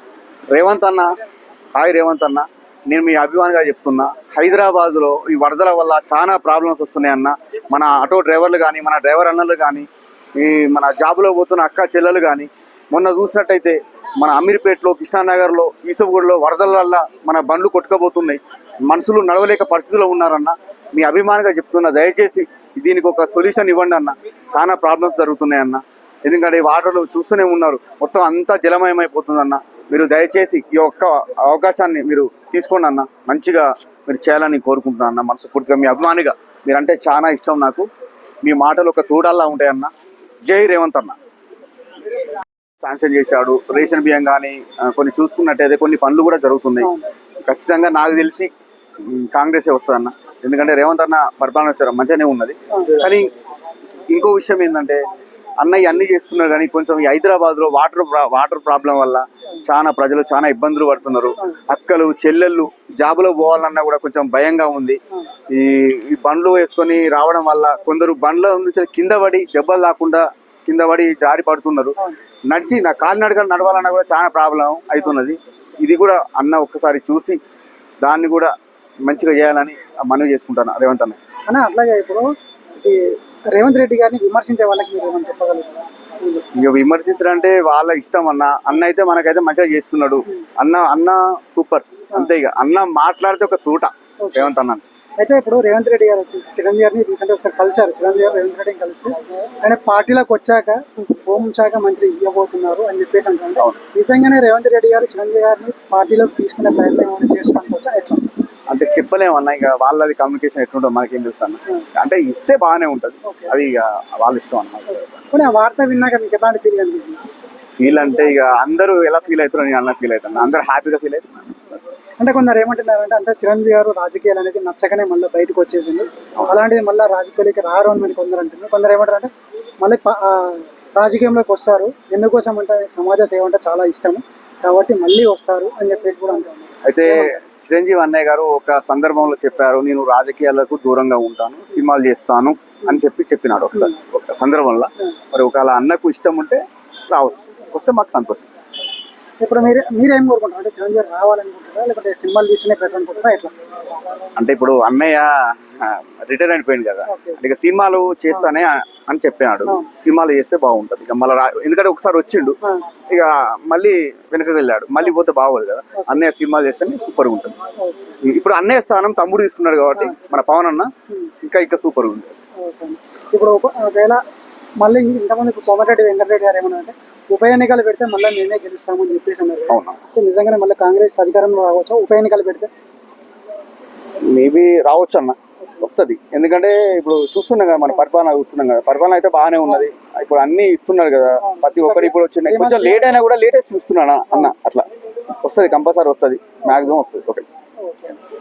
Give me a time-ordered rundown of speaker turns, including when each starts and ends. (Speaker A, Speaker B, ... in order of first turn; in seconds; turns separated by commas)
Speaker A: 0.5-1.1, Speaker A: 1.7-37.9, Speaker A: 38.4-39.9, Speaker A: 40.5-41.2, Speaker A: 42.8-46.9, Speaker B: 46.8-47.1, Speaker A: 47.5-48.5, Speaker A: 49.0-53.3, Speaker A: 54.1-55.0, Speaker A: 55.6-71.9, Speaker A: 72.5-77.4, Speaker A: 78.0-78.5, Speaker A: 79.1-81.2, Speaker B: 81.5-82.3, Speaker B: 82.8-86.5, Speaker A: 86.5-94.8, Speaker B: 95.2-108.3, Speaker A: 108.7-115.3, Speaker B: 113.2-113.5, Speaker B: 115.3-117.2, Speaker A: 117.8-121.7, Speaker B: 122.2-129.3, Speaker B: 129.8-137.3, Speaker A: 136.8-148.5, Speaker B: 149.4-153.5, Speaker A: 154.3-167.5, Speaker B: 157.1-157.4, Speaker B: 167.8-168.2, Speaker A: 168.2-170.9, Speaker A: 171.4-172.3, Speaker B: 172.6-174.2, Speaker B: 174.8-182.7, Speaker A: 179.7-180.0, Speaker A: 184.2-194.9, Speaker B: 191.4-193.1, Speaker A: 195.4-197.4, Speaker B: 197.8-198.2